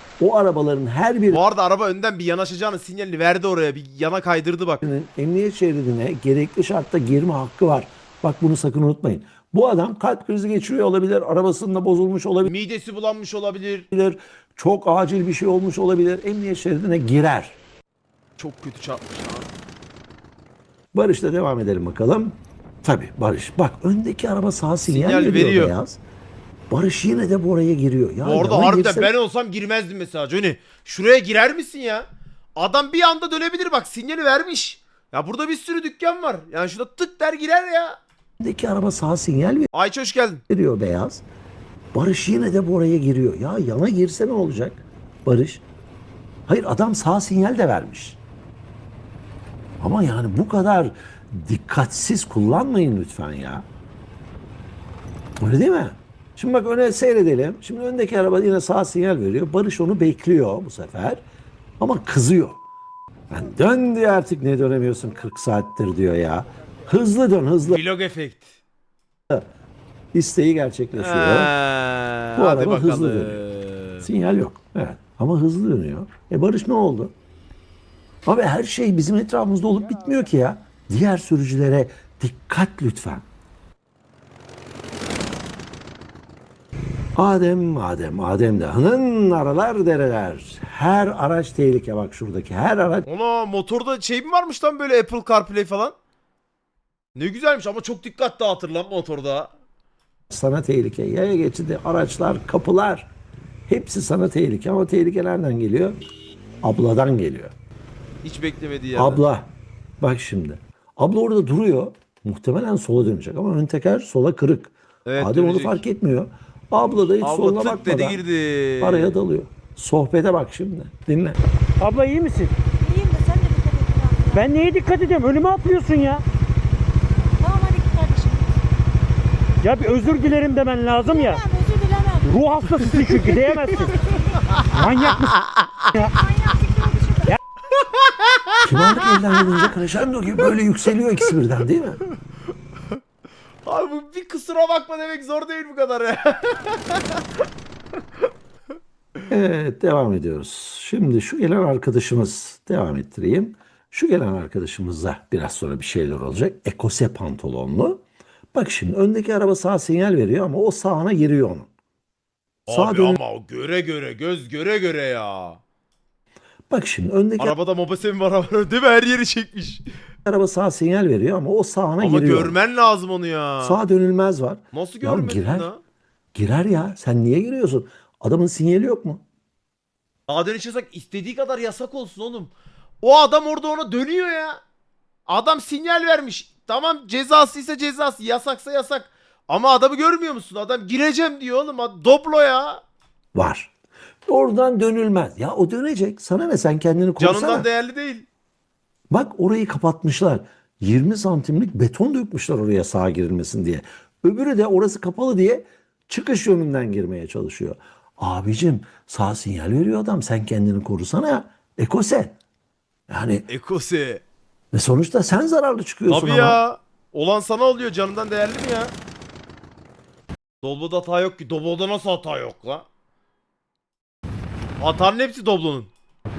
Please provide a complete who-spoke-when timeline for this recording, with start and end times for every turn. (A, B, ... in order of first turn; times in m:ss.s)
0:00.2-0:01.4 A
0:01.3-0:04.8 B
0:04.8-0:12.5 A
0:12.4-0:13.9 B
0:13.9-0:17.6 A
0:18.4-0:19.5 B
0:20.9-0:26.0 A
0:24.8-0:25.7 B
0:26.7-0:29.1 A
0:28.2-0:38.0 B
0:38.4-0:39.7 A
0:39.7-0:40.4 B
0:40.5-0:41.2 A
0:41.9-0:45.6 A
0:46.5-0:48.2 A
0:49.8-0:53.6 A
0:55.4-1:01.2 A
1:01.8-1:02.6 A
1:03.3-1:07.8 A
1:07.6-1:08.6 B
1:10.1-1:11.5 A
1:11.0-1:14.1 B
1:12.3-1:13.4 A
1:14.0-1:17.1 A
1:18.2-1:23.2 A
1:27.1-1:33.0 A
1:33.0-1:36.0 B
1:37.2-1:39.5 B
1:40.3-1:43.1 A
1:43.7-1:46.0 A
1:46.6-1:47.5 A
1:48.2-1:49.2 B
1:48.9-1:58.2 A
1:55.0-1:55.8 B
1:57.2-1:59.1 B
1:58.8-2:01.4 A
2:01.8-2:02.5 C
2:02.8-2:04.6 D
2:04.3-2:06.2 C
2:07.4-2:08.5 D
2:09.6-2:11.4 C
2:11.0-2:12.3 D
2:12.2-2:14.0 C
2:14.6-2:15.4 C
2:15.5-2:15.8 B
2:15.9-2:16.2 C
2:16.1-2:17.4 D
2:17.9-2:19.1 B
2:18.6-2:22.0 A
2:23.6-2:27.2 B
2:29.3-2:38.0 A
2:38.5-2:41.7 A
2:42.7-2:45.6 B
2:42.7-2:43.2 A
2:46.7-2:47.6 A
2:47.4-2:49.8 B
2:50.2-2:52.6 A
2:52.0-2:53.8 B
2:53.6-2:55.7 A
2:54.7-2:55.8 B
2:56.3-2:59.2 A
3:00.3-3:02.5 B
3:03.0-3:04.6 B
3:05.3-3:12.8 B
3:13.3-3:13.7 A
3:14.3-3:17.6 A
3:17.2-3:18.2 B
3:19.1-3:32.4 A
3:33.1-3:33.5 A
3:33.5-3:34.2 B
3:34.7-3:36.6 A
3:36.1-3:38.9 B
3:40.6-3:42.8 B
3:44.8-3:45.9 B